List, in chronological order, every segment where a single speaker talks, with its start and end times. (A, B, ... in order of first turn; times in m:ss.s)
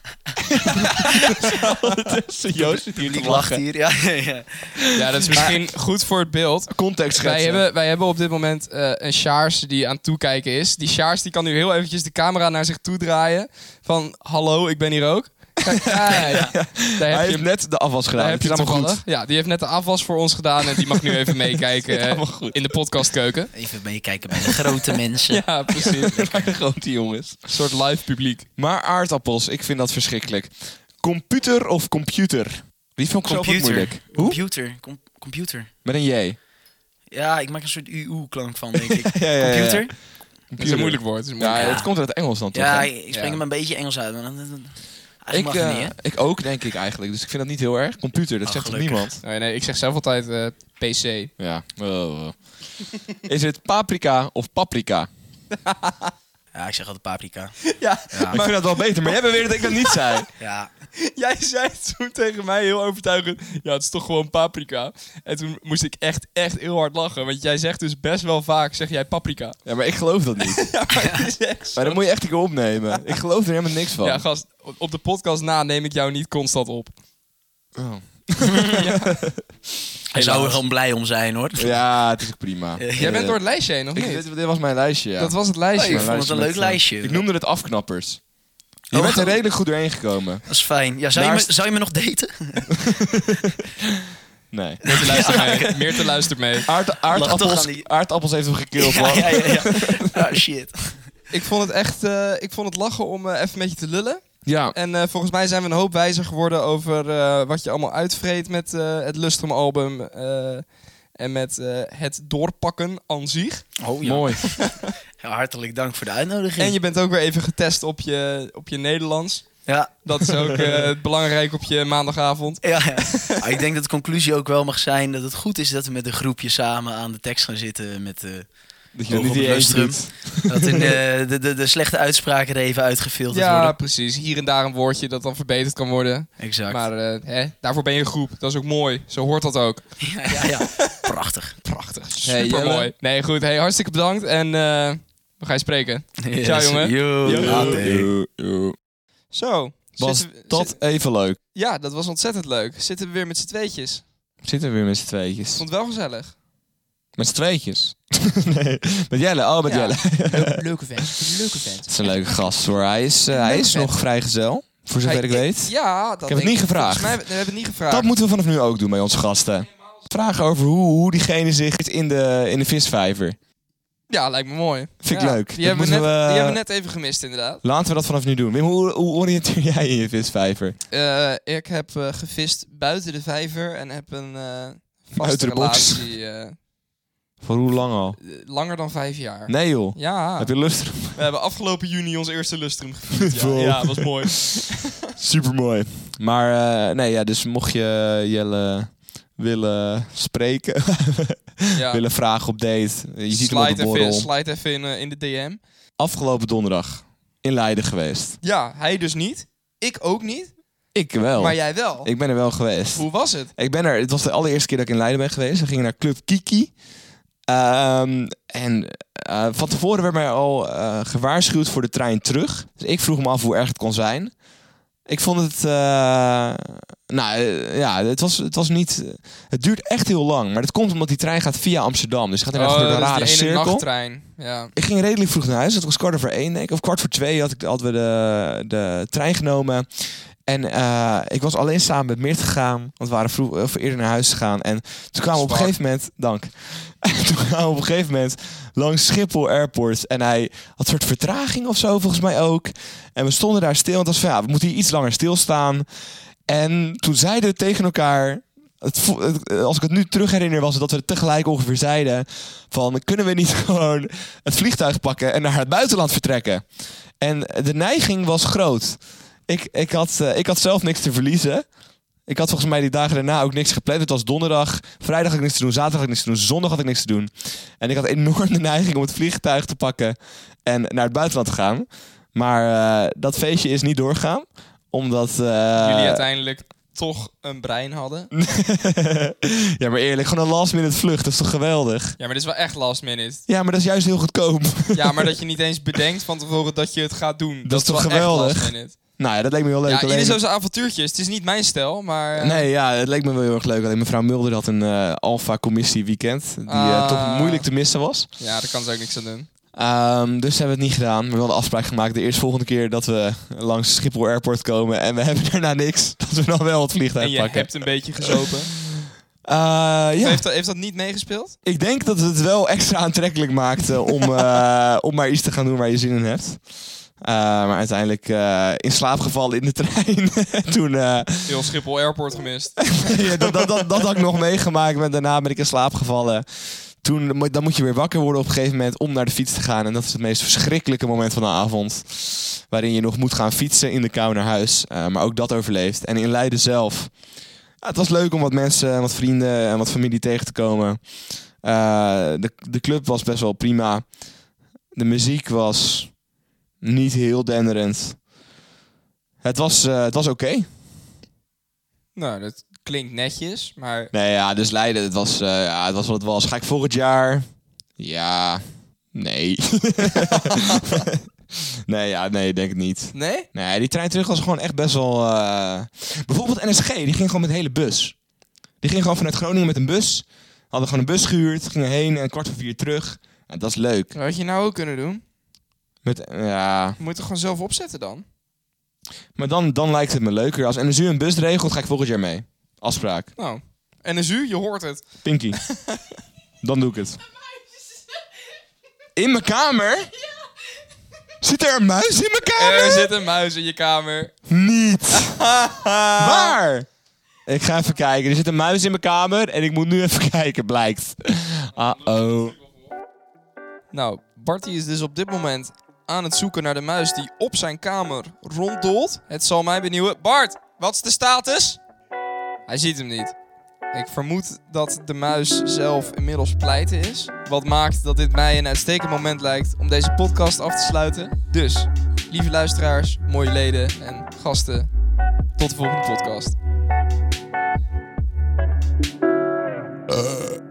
0:00.5-0:03.6 A
0:01.1-0:02.0 B
0:02.6-0:05.5 C
0:04.9-0:23.5 B
0:06.7-0:07.7 A
0:15.8-0:19.0 A
0:16.1-0:16.5 C
0:20.7-0:22.8 A
0:23.5-0:25.5 C
0:25.3-0:26.5 B
0:25.8-0:27.4 A
0:27.5-0:28.5 B
0:28.6-0:34.4 A
0:33.3-0:35.7 C
0:35.8-0:36.4 A
0:37.1-0:39.9 C
0:38.8-0:39.9 A
0:40.5-0:42.9 A
0:40.6-0:41.8 B
0:41.6-0:41.9 C
0:42.5-0:46.0 C
0:43.1-0:43.4 B
0:45.3-0:49.2 A
0:48.4-0:49.2 C
0:49.2-0:51.3 B
0:51.4-0:55.1 A
0:55.6-0:56.1 B
0:56.5-0:58.4 C
0:57.6-1:00.2 B
0:58.3-1:00.3 A
1:00.4-1:00.7 C
1:01.0-1:09.6 B
1:09.6-1:10.7 A
1:10.4-1:12.0 B
1:11.0-1:11.3 C
1:11.8-1:14.2 A
1:14.0-1:17.0 B
1:17.8-1:19.4 A
1:18.5-1:18.9 C
1:18.8-1:19.2 B
1:20.1-1:21.8 C
1:20.2-1:20.6 B
1:21.6-1:23.4 A
1:22.8-1:23.2 C
1:23.0-1:24.2 B
1:23.9-1:28.2 A
1:25.2-1:26.1 B
1:25.8-1:27.2 C
1:28.9-1:30.4 A
1:28.9-1:29.4 C
1:30.5-1:33.1 C
1:31.1-1:31.5 A
1:32.8-1:35.5 A
1:34.8-1:36.7 B
1:34.8-1:37.9 C
1:36.7-1:40.4 A
1:38.8-1:41.1 C
1:41.3-1:53.8 B
1:44.4-1:44.8 A
1:53.8-1:56.8 C
1:54.0-1:54.4 A
1:56.6-2:03.4 B
1:59.7-2:00.6 C
2:02.6-2:08.5 C
2:09.0-2:11.0 A
2:09.1-2:13.8 C
2:13.3-2:21.0 B
2:16.4-2:16.9 C
2:20.0-2:21.6 C
2:21.6-2:27.8 B
2:22.2-2:22.9 A
2:26.2-2:28.1 C
2:27.3-2:28.8 A
2:29.3-2:30.8 B
2:30.0-2:31.4 A
2:31.5-2:34.0 B
2:34.4-2:35.6 A
2:35.6-2:36.4 B
2:37.2-2:41.1 A
2:39.6-2:42.4 B
2:41.9-2:47.3 A
2:43.3-2:44.0 B
2:45.0-2:48.1 B
2:47.9-2:53.4 A
2:54.1-2:57.6 B
2:55.0-2:56.6 A
2:57.6-3:00.8 A
3:00.9-3:06.6 B
3:05.2-3:06.1 A
3:07.4-3:08.2 A
3:08.2-3:14.9 B
3:09.5-3:11.2 A
3:13.2-3:24.3 A
3:21.7-3:22.0 B
3:23.3-3:25.6 B
3:26.0-3:28.4 A
3:28.4-3:30.5 B
3:30.9-3:36.7 A
3:31.4-3:32.1 B
3:33.0-3:33.5 B
3:37.5-3:44.3 A
3:45.1-3:53.9 A
3:52.5-3:54.7 B
3:54.7-4:15.9 A
4:05.3-4:05.7 B
4:16.5-4:31.7 A
4:32.3-4:46.2 A
4:45.8-4:48.3 B
4:48.3-4:52.2 A
4:52.2-4:53.4 B
4:53.5-4:55.3 A
4:54.9-4:59.0 B
4:57.6-5:00.4 A
4:59.8-5:02.7 B
5:02.4-5:08.3 A
5:06.7-5:07.7 B
5:08.4-5:09.5 B
5:09.7-5:20.4 A
5:17.2-5:18.7 B
5:20.2-5:21.6 B
5:21.6-5:26.7 A
5:27.2-5:31.7 A
5:31.5-5:33.9 B
5:32.8-5:47.2 A
5:47.8-5:54.1 A
5:54.9-5:56.2 A
5:56.8-5:58.2 A
5:59.4-6:00.7 A
6:02.2-6:04.1 B
6:04.1-6:07.4 A
6:08.0-6:18.2 A
6:10.1-6:10.9 B
6:13.1-6:13.5 B
6:18.8-6:24.1 A
6:24.1-6:25.2 B
6:26.0-6:27.0 A
6:27.0-6:28.2 B
6:29.4-6:33.3 A
6:33.4-6:36.0 B
6:35.2-6:35.6 A
6:36.6-6:37.2 A
6:39.2-6:40.1 A
6:41.4-6:43.1 A
6:42.6-6:44.4 B
6:44.5-6:45.5 A
6:45.1-6:46.6 B
6:46.2-6:46.9 A
6:47.5-6:52.6 A
6:53.9-7:01.8 B
7:02.7-7:03.4 B
7:03.9-7:14.9 B
7:15.6-7:16.6 B